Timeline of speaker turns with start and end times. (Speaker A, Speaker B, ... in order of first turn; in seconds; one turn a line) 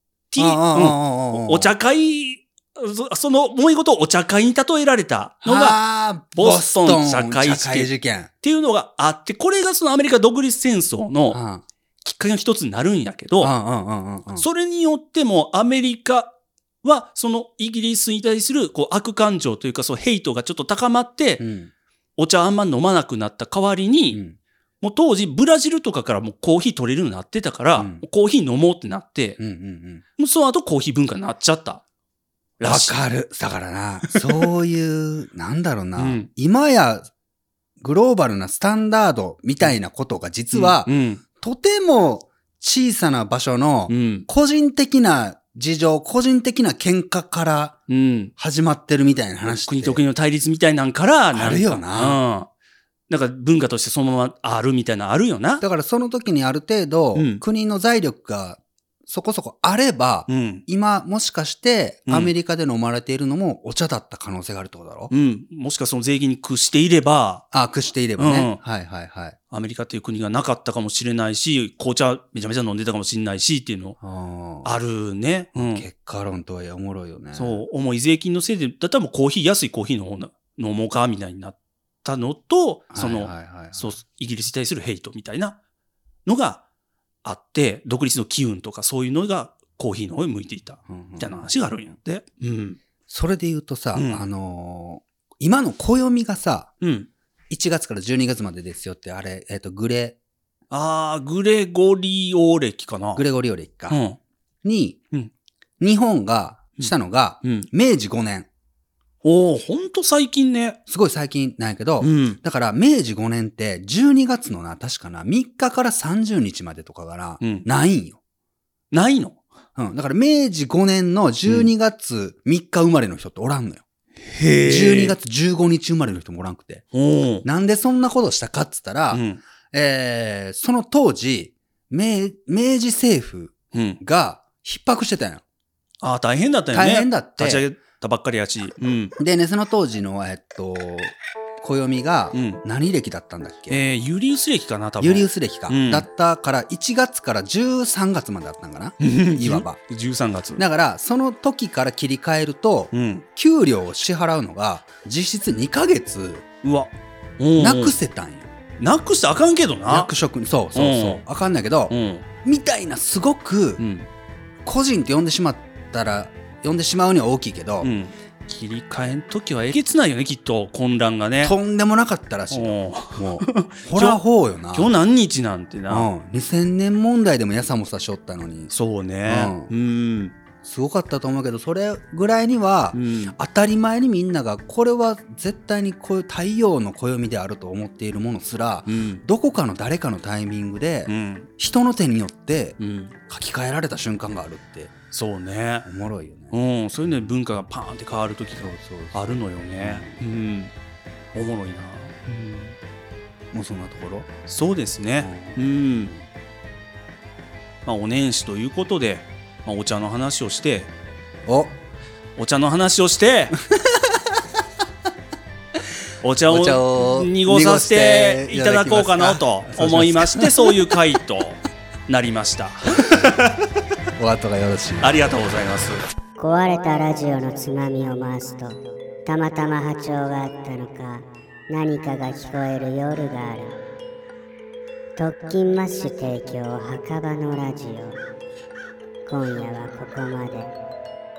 Speaker A: 0.3-5.8
Speaker B: 0.4-1.7
Speaker B: 5.4-8.3
Speaker A: 6.3-7.9
Speaker A: 8.4-11.4
Speaker B: 11.3-11.6
Speaker A: 12.0-13.5
Speaker B: 13.4-14.4
Speaker A: 14.4-21.4
Speaker B: 21.4-21.7
Speaker A: 22.2-24.2
Speaker B: 24.1-24.4
Speaker A: 24.8-29.4
Speaker B: 27.8-28.0
Speaker B: 29.4-30.0
Speaker A: 30.2-31.8
Speaker A: 32.6-32.9
Speaker B: 32.6-37.1
Speaker A: 34.1-34.5
Speaker A: 36.0-36.3
Speaker B: 37.8-47.8
Speaker A: 40.5-41.2
Speaker A: 43.9-44.3
Speaker A: 47.9-48.3
Speaker B: 48.4-50.0
Speaker A: 49.6-52.5
Speaker B: 51.3-52.2
Speaker A: 53.1-55.6
Speaker B: 55.6-65.1
Speaker A: 57.1-57.4
Speaker A: 60.3-60.6
Speaker A: 62.1-62.3
Speaker A: 65.1-67.4
Speaker B: 67.5-69.4
Speaker A: 68.2-68.6
Speaker A: 69.5-74.0
Speaker B: 74.0-74.7
Speaker A: 74.6-75.8
Speaker B: 75.5-77.6
Speaker A: 77.3-85.6
Speaker B: 82.9-84.0
Speaker A: 86.2-86.6
Speaker A: 87.2-92.8
Speaker B: 90.9-91.5
Speaker B: 93.1-96.7
Speaker A: 93.9-94.2
Speaker A: 96.8-97.1
Speaker B: 97.5-100.2
Speaker A: 100.7-103.2
Speaker B: 103.1-104.0
Speaker A: 103.9-104.2
Speaker B: 104.6-105.0
Speaker B: 105.8-108.5
Speaker A: 107.4-107.7
Speaker A: 109.2-110.8
Speaker B: 110.9-118.2
Speaker A: 112.0-112.4
Speaker A: 117.4-117.7
Speaker A: 118.9-119.4
Speaker B: 119.8-123.8
Speaker A: 124.2-125.2
Speaker B: 124.6-126.8
Speaker A: 126.9-127.4
Speaker B: 127.4-135.4
Speaker A: 129.1-129.4
Speaker A: 133.7-134.0
Speaker A: 136.0-139.2
Speaker B: 136.7-137.7
Speaker B: 139.2-143.8
Speaker A: 142.3-142.6
Speaker A: 143.7-146.1
Speaker B: 145.0-149.8
Speaker A: 149.0-150.6
Speaker B: 150.6-156.4
Speaker A: 152.9-153.2
Speaker A: 156.6-157.9
Speaker B: 157.6-158.5
Speaker A: 158.8-160.1
Speaker B: 159.9-163.8
Speaker A: 160.7-161.2
Speaker A: 161.9-162.2
Speaker A: 163.8-164.1
Speaker B: 164.6-167.9
Speaker A: 167.8-171.6
Speaker B: 171.4-174.9
Speaker A: 172.5-174.2
Speaker A: 174.7-176.1
Speaker B: 175.9-178.7
Speaker A: 178.7-180.3
Speaker B: 179.3-179.7
Speaker B: 180.6-194.9
Speaker A: 182.9-183.3
Speaker A: 188.9-189.2
Speaker A: 191.1-191.5
Speaker A: 192.8-193.2
Speaker A: 195.1-195.8
Speaker B: 195.8-196.5
Speaker A: 196.5-200.7
Speaker B: 198.6-200.2
Speaker A: 201.3-202.7
Speaker B: 203.5-204.3
Speaker A: 204.5-206.1
Speaker B: 205.2-205.6
Speaker A: 207.8-210.9
Speaker B: 211.4-211.7
Speaker A: 212.3-213.6
Speaker B: 213.7-214.4
Speaker A: 216.2-223.6
Speaker B: 216.5-220.8
Speaker B: 222.9-223.5
Speaker B: 224.2-225.2
Speaker A: 225.0-226.0
Speaker C: 226.4-233.8
Speaker C: 235.2-238.2
Speaker C: 239.2-240.7